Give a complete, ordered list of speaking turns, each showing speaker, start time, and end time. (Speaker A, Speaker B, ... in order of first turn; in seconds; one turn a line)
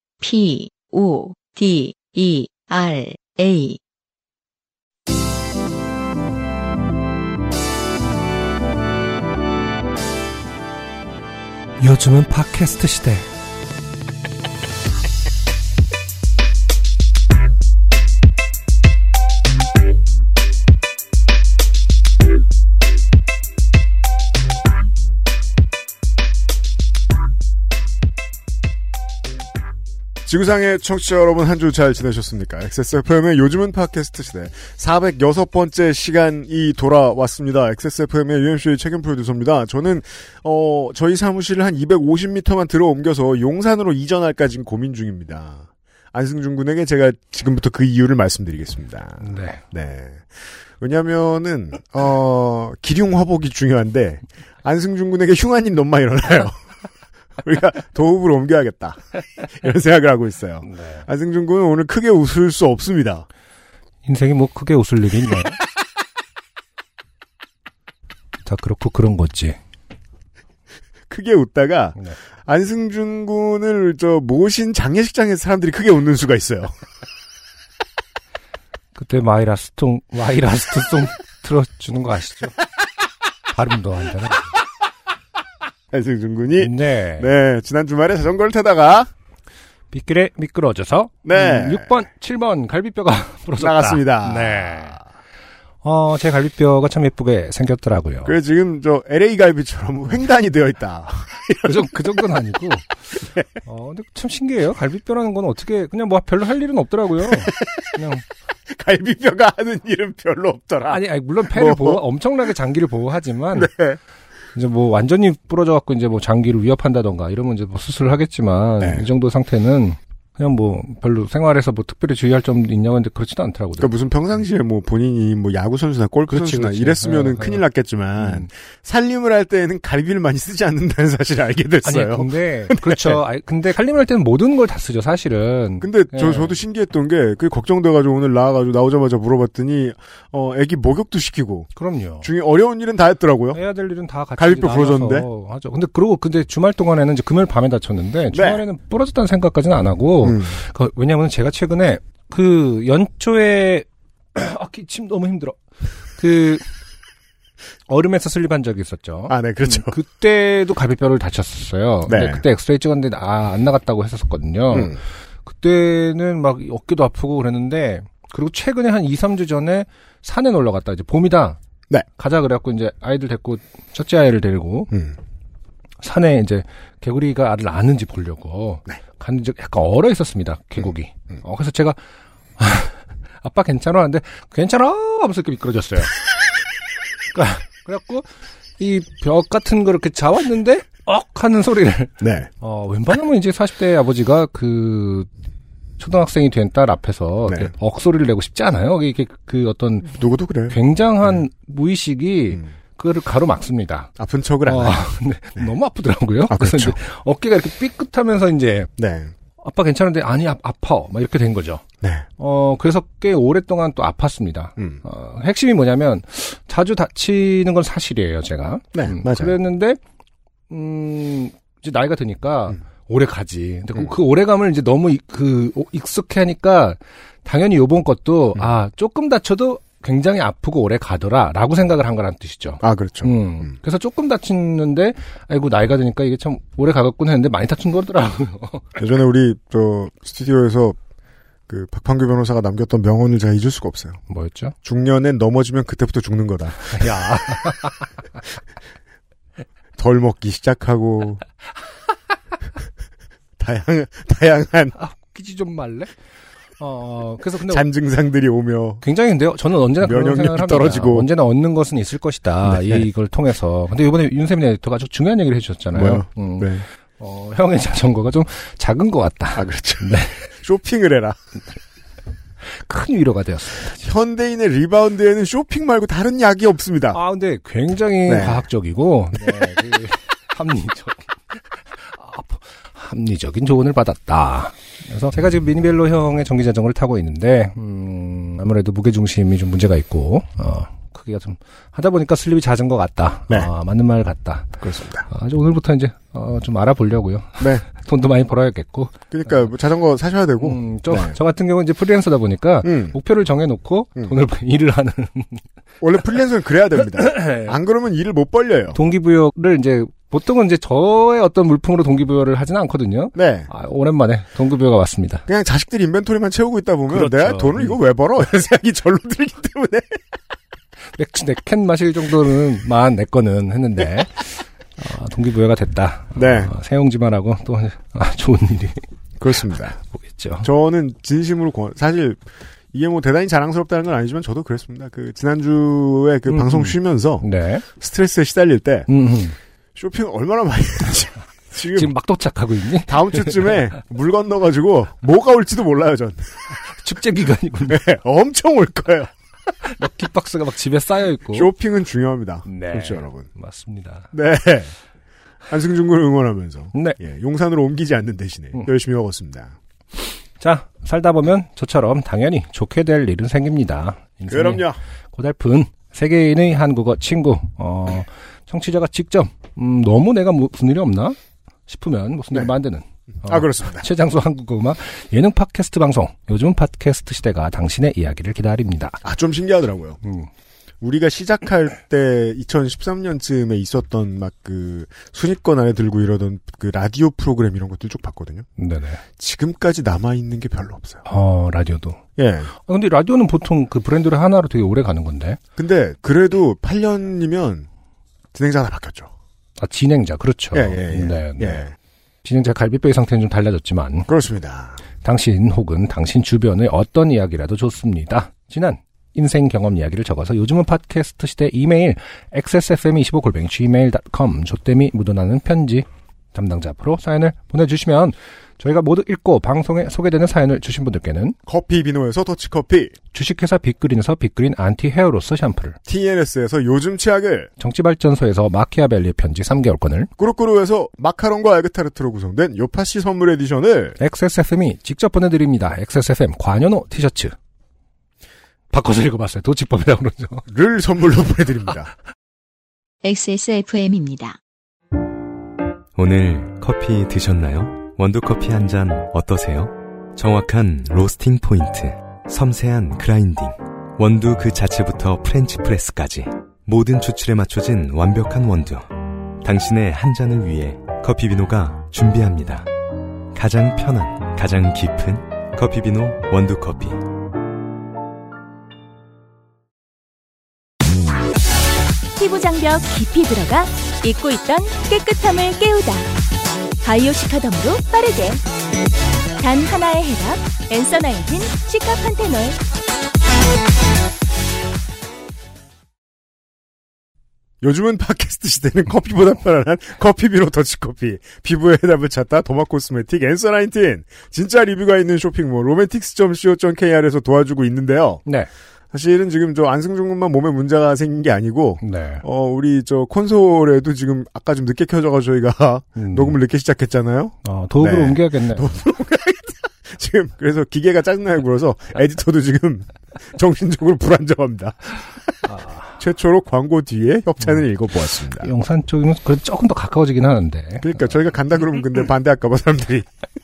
Speaker A: 0.2-3.8
Speaker B: 11.8-13.2
Speaker C: 30.2-50.3
Speaker B: 49.2-49.6
Speaker C: 50.8-56.6
Speaker C: 57.4-63.2
Speaker B: 60.6-61.0
Speaker B: 64.0-65.6
Speaker B: 68.4-69.6
Speaker C: 71.1-76.7
Speaker B: 79.0-82.5
Speaker B: 83.5-84.5
Speaker C: 85.9-89.1
Speaker B: 86.6-87.3
Speaker B: 89.9-95.0
Speaker C: 91.2-92.0
Speaker C: 93.6-95.0
Speaker B: 95.8-98.3
Speaker C: 98.2-101.9
Speaker B: 101.6-108.2
Speaker C: 107.4-107.6
Speaker C: 108.7-112.0
Speaker B: 110.9-113.7
Speaker C: 113.5-114.0
Speaker B: 114.5-123.9
Speaker C: 118.8-119.0
Speaker C: 123.8-133.2
Speaker B: 126.3-127.6
Speaker B: 128.2-128.5
Speaker B: 131.8-136.6
Speaker C: 135.8-141.7
Speaker B: 141.7-142.3
Speaker C: 142.2-143.6
Speaker B: 143.5-155.6
Speaker C: 144.4-145.3
Speaker C: 148.3-148.6
Speaker C: 150.2-150.6
Speaker B: 156.2-156.6
Speaker B: 157.9-171.6
Speaker C: 159.3-160.0
Speaker C: 162.1-162.4
Speaker C: 164.7-165.0
Speaker B: 172.2-174.9
Speaker B: 176.0-182.0
Speaker B: 182.6-186.1
Speaker B: 187.3-188.2
Speaker B: 188.8-195.3
Speaker C: 192.2-192.5
Speaker B: 196.0-200.2
Speaker C: 200.1-200.8
Speaker B: 200.7-204.1
Speaker C: 204.2-205.0
Speaker B: 204.6-208.9
Speaker C: 206.5-207.0
Speaker C: 209.0-209.3
Speaker B: 209.6-211.8
Speaker C: 212.0-212.2
Speaker B: 212.4-220.0
Speaker C: 218.9-219.6
Speaker B: 220.7-238.8
Speaker C: 232.8-233.7
Speaker C: 239.0-241.0
Speaker C: 241.7-244.2
Speaker B: 244.3-244.7
Speaker C: 244.8-247.1
Speaker B: 246.9-248.1
Speaker C: 250.0-251.4
Speaker C: 253.6-254.9
Speaker B: 254.9-256.1
Speaker B: 256.8-257.9
Speaker C: 257.6-259.0
Speaker B: 259.0-270.4
Speaker C: 260.0-261.3
Speaker C: 262.7-263.0
Speaker C: 265.9-266.9
Speaker C: 269.6-271.4
Speaker B: 272.9-273.9
Speaker C: 274.0-277.2
Speaker B: 277.1-299.1
Speaker C: 278.3-278.6
Speaker C: 294.8-295.2
Speaker C: 297.6-297.8
Speaker C: 299.3-301.4
Speaker B: 300.6-305.6
Speaker C: 302.8-303.1
Speaker C: 306.0-309.0
Speaker B: 307.1-307.8
Speaker B: 308.9-315.4
Speaker C: 313.3-313.7
Speaker C: 315.5-320.2
Speaker B: 317.1-318.0
Speaker B: 321.1-329.0
Speaker C: 326.3-326.7
Speaker C: 329.4-330.0
Speaker B: 330.1-330.7
Speaker C: 330.6-332.4
Speaker C: 332.9-339.1
Speaker B: 336.5-337.8
Speaker B: 339.1-339.6
Speaker C: 339.9-342.1
Speaker B: 341.8-343.7
Speaker C: 343.1-346.6
Speaker B: 346.9-348.0
Speaker C: 347.9-349.3
Speaker B: 349.9-351.7
Speaker C: 351.5-353.5
Speaker B: 352.6-354.3
Speaker C: 354.3-354.9
Speaker C: 355.7-359.7
Speaker B: 356.9-357.2
Speaker B: 360.6-379.2
Speaker C: 364.5-365.0
Speaker C: 373.4-374.0
Speaker C: 379.2-380.2
Speaker B: 380.2-380.5
Speaker C: 381.0-388.6
Speaker B: 388.8-389.2
Speaker C: 389.4-391.2
Speaker B: 391.2-392.2
Speaker C: 392.4-392.7
Speaker B: 392.9-395.6
Speaker C: 395.8-397.9
Speaker C: 398.5-399.3
Speaker B: 399.8-401.9
Speaker C: 400.7-401.9
Speaker B: 402.4-404.3
Speaker C: 404.3-405.0
Speaker B: 405.2-421.6
Speaker C: 421.7-423.1
Speaker B: 423.3-426.0
Speaker C: 426.1-427.7
Speaker B: 427.8-430.3
Speaker C: 430.4-434.2
Speaker B: 434.2-437.5
Speaker B: 438.9-440.6
Speaker C: 440.7-442.1
Speaker A: 443.2-444.6
Speaker D: 446.1-462.9
Speaker D: 463.5-467.2
Speaker E: 472.4-476.3
Speaker E: 477.0-478.6
Speaker E: 479.6-482.8
Speaker C: 487.8-498.4
Speaker C: 499.1-515.2
Speaker B: 502.0-502.4
Speaker B: 506.1-506.6
Speaker B: 507.6-508.9
Speaker B: 515.6-516.1
Speaker C: 516.2-518.7
Speaker B: 518.6-521.3
Speaker C: 521.0-523.3